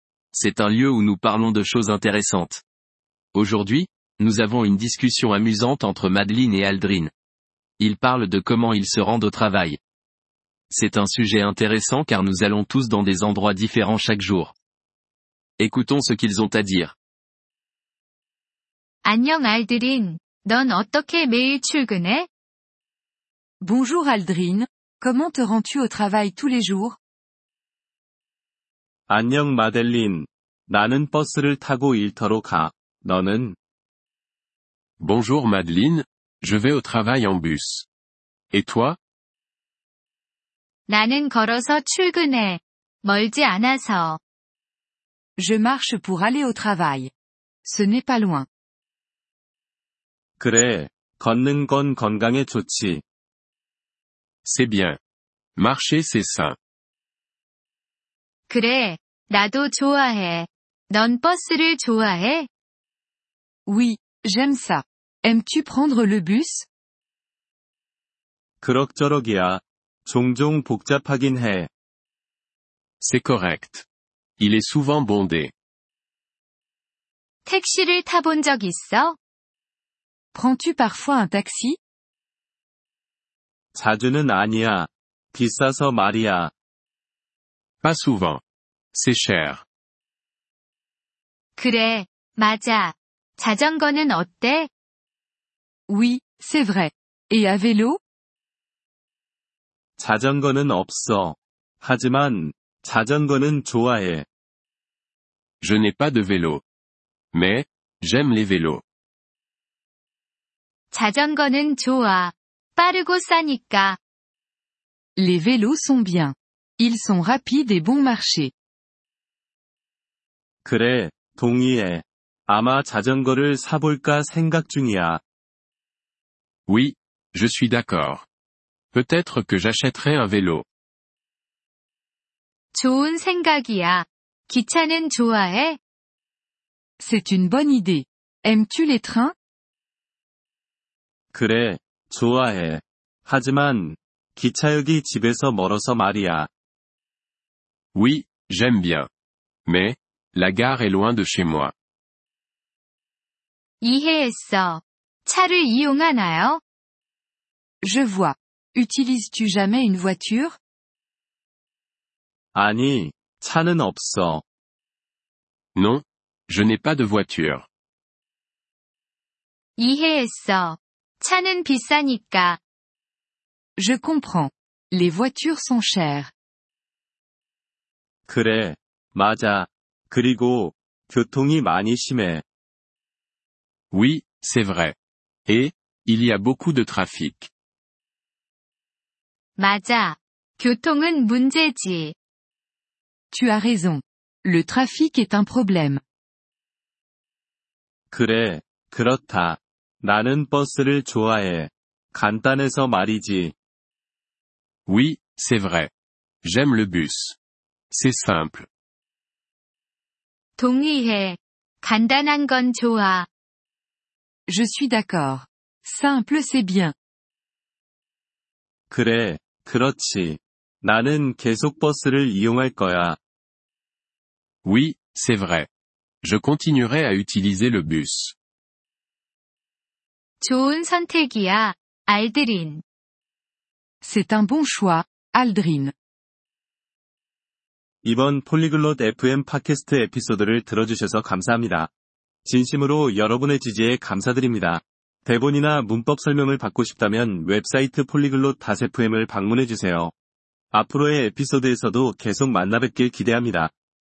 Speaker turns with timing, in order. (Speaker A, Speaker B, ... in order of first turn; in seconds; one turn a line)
Speaker A: 0.3-2.6
Speaker A: 3.3-7.1
Speaker A: 7.8-9.8
Speaker A: 10.7-14.5
Speaker A: 15.6-16.9
Speaker B: 19.0-22.3
Speaker C: 23.6-27.0
Speaker D: 29.1-33.6
Speaker E: 35.0-37.9
Speaker E: 38.5-39.0
Speaker B: 40.9-44.2
Speaker C: 45.4-47.1
Speaker C: 47.6-48.5
Speaker D: 50.4-53.0
Speaker E: 54.4-55.0
Speaker E: 55.5-56.5
Speaker B: 58.5-62.5
Speaker C: 63.6-66.7
Speaker D: 68.6-71.7
Speaker E: 73.0-73.8
Speaker E: 74.4-75.5
Speaker B: 77.5-79.2
Speaker C: 80.3-81.8
Speaker D: 83.7-86.5
Speaker E: 87.8-88.4
Speaker E: 88.9-89.6
Speaker B: 91.6-94.7
Speaker C: 95.9-98.0
Speaker D: 100.0-104.2
Speaker E: 105.6-106.6
Speaker E: 107.3-108.8
Speaker B: 110.9-114.0
Speaker C: 115.2-118.5
Speaker D: 120.6-125.2
Speaker E: 126.7-128.2
Speaker E: 128.9-130.6
Speaker B: 132.7-135.8
Speaker C: 137.0-139.3
Speaker D: 141.3-146.5
Speaker E: 147.9-149.1
Speaker E: 149.7-151.7
Speaker B: 153.8-156.6
Speaker C: 157.8-160.6
Speaker D: 162.5-164.4
Speaker E: 165.8-167.7
Speaker B: 169.8-172.6
Speaker C: 173.8-176.3
Speaker D: 178.3-182.4
Speaker E: 183.9-184.9
Speaker E: 185.5-187.5
Speaker B: 189.6-192.1
Speaker C: 193.3-196.0
Speaker D: 198.1-203.5
Speaker E: 204.9-205.9
Speaker E: 206.4-207.4
Speaker E: 207.9-208.7
Speaker B: 210.6-213.3
Speaker C: 214.5-216.9
Speaker D: 218.9-223.2
Speaker E: 224.6-225.7
Speaker E: 226.2-228.3
Speaker B: 230.4-232.8
Speaker C: 234.0-235.9
Speaker D: 238.0-241.9
Speaker D: 242.4-250.1
Speaker D: 250.7-253.7